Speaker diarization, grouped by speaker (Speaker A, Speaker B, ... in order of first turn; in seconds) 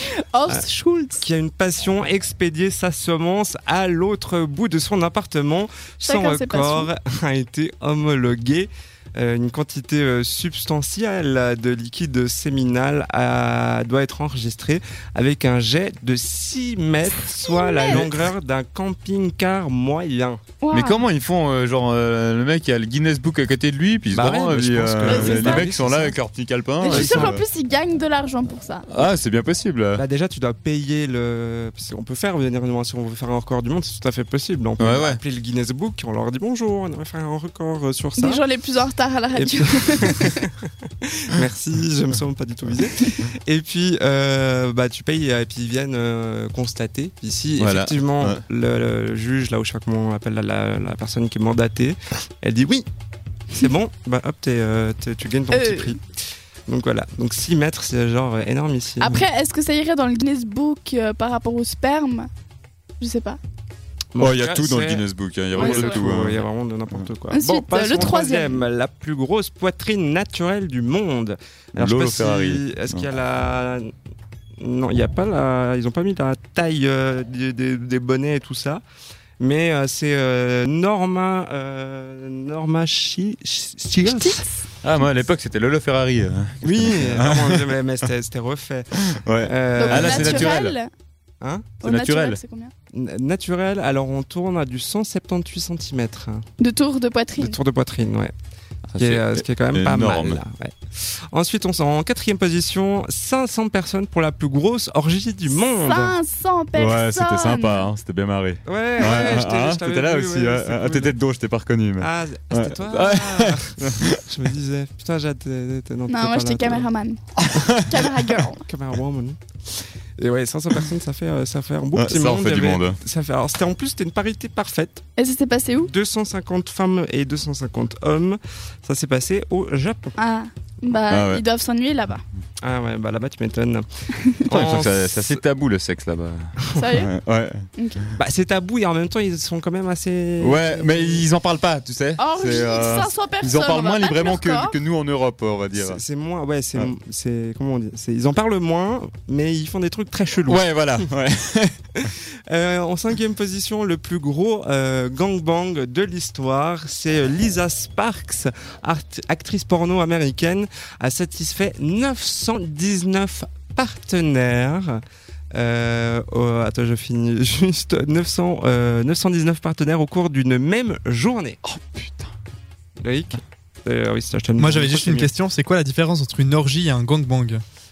Speaker A: 0.1-1.2, 6.0-6.9, 17.4-18.1, 20.6-21.0, 25.1-25.7, 26.8-28.9, 38.2-40.4, 55.5-55.9, 59.0-62.3, 63.0-63.4, 65.5-66.0, 67.3-68.6, 84.0-84.6, 89.8-90.9, 91.8-92.7, 96.6-97.6, 105.5-107.9, 116.1-118.6, 125.2-125.9, 130.2-132.2, 136.7-137.1, 137.8-138.0, 142.2-144.8
Speaker B: 1.1-20.4, 24.1-26.2, 26.8-27.4, 29.9-38.4, 39.3-52.9, 53.5-56.0, 56.7-59.2, 64.1-73.9, 74.6-78.8, 79.4-84.4, 86.6-90.6, 91.4-91.7, 92.9-96.5, 97.4-98.3, 99.0-106.1, 108.6-111.2, 112.0-116.9, 118.6-119.4, 120.2-125.0, 125.8-130.2, 132.6-133.8, 134.4-135.4, 138.2-141.2, 145.7-151.1, 152.0-165.0, 165.5-171.6, 173.0-175.3
Speaker C: 20.7-27.4, 28.9-30.0, 34.8-35.2, 47.6-48.4, 64.2-67.0, 71.7-73.1, 84.8-87.7, 88.9-90.8, 91.8-92.4, 98.9-100.4, 106.7-114.2, 117.4-118.1, 121.9-123.0, 131.1-131.4, 134.5-137.7, 140.4-146.0, 150.4-151.8, 171.6-172.3
Speaker D: 174.6-177.6